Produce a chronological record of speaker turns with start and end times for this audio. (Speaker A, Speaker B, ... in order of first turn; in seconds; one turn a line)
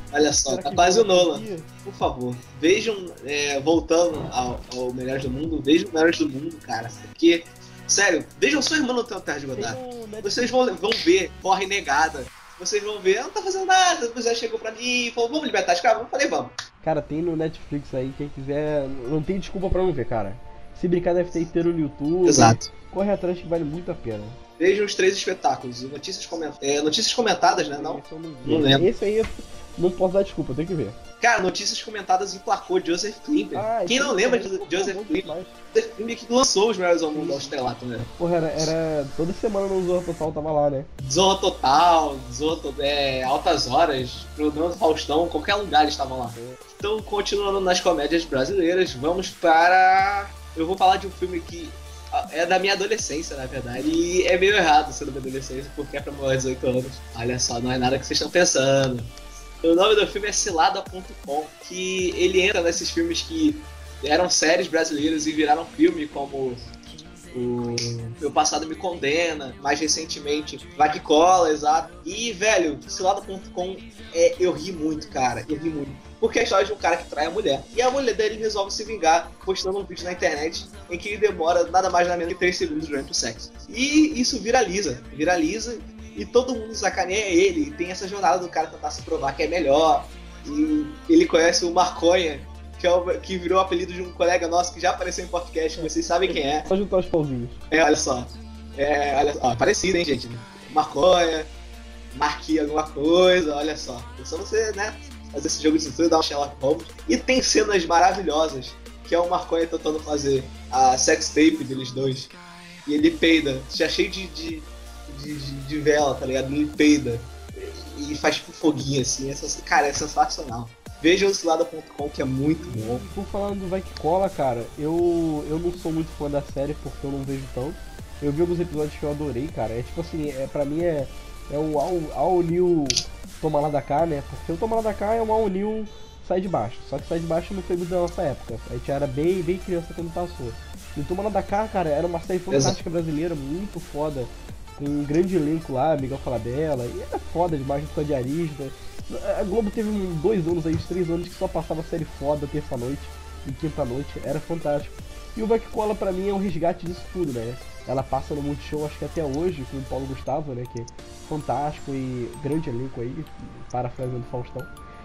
Speaker A: 0.1-16.5
Speaker B: 0.5-1.7
Speaker B: 9.5-10.6
Speaker B: 16.8-24.4
Speaker A: 22.3-22.7
Speaker A: 24.6-28.9
Speaker B: 27.4-31.0
Speaker A: 31.2-38.1
Speaker B: 33.5-35.6
Speaker B: 37.1-37.6
Speaker B: 38.2-40.9
Speaker A: 41.0-59.1
Speaker B: 46.4-46.6
Speaker A: 59.6-66.7
Speaker A: 67.3-96.7
Speaker B: 95.8-97.6
Speaker A: 97.7-101.5
Speaker A: 102.1-112.3
Speaker A: 112.9-123.0
Speaker B: 122.5-164.7
Speaker A: 142.5-142.8